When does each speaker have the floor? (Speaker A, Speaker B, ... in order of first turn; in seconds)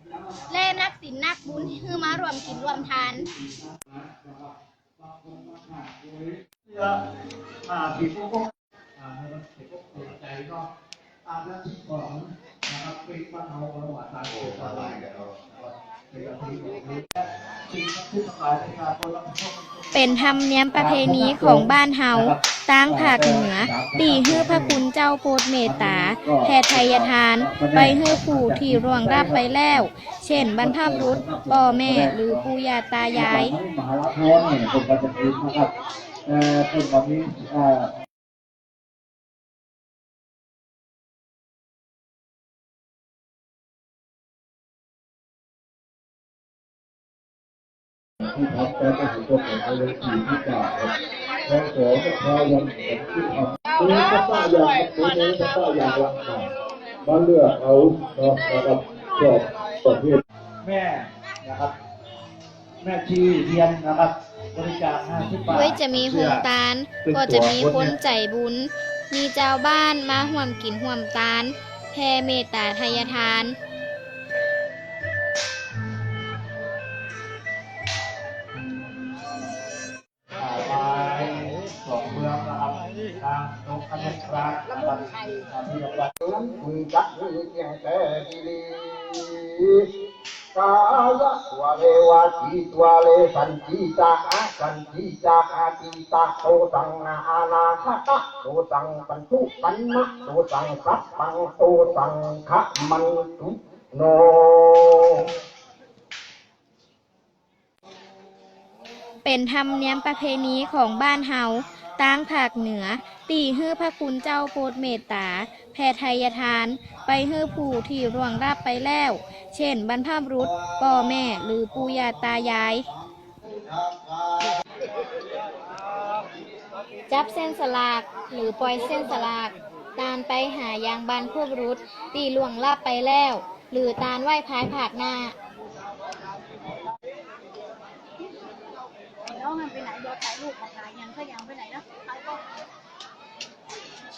Speaker A: 0.5-3.3, 19.9-33.5, 65.5-73.6, 109.2-122.9, 127.1-135.3
Speaker B: 2.7-7.0, 7.7-10.7, 11.3-20.1, 20.7-24.8, 25.6-32.5, 33.1-35.7, 36.3-37.9, 48.4-50.9, 51.5-56.4, 57.1-59.4, 60.6-61.8, 62.8-66.5, 67.0-68.0, 80.4-86.1
Speaker C: 86.2-89.8, 90.5-105.2
Speaker D: 139.3-142.4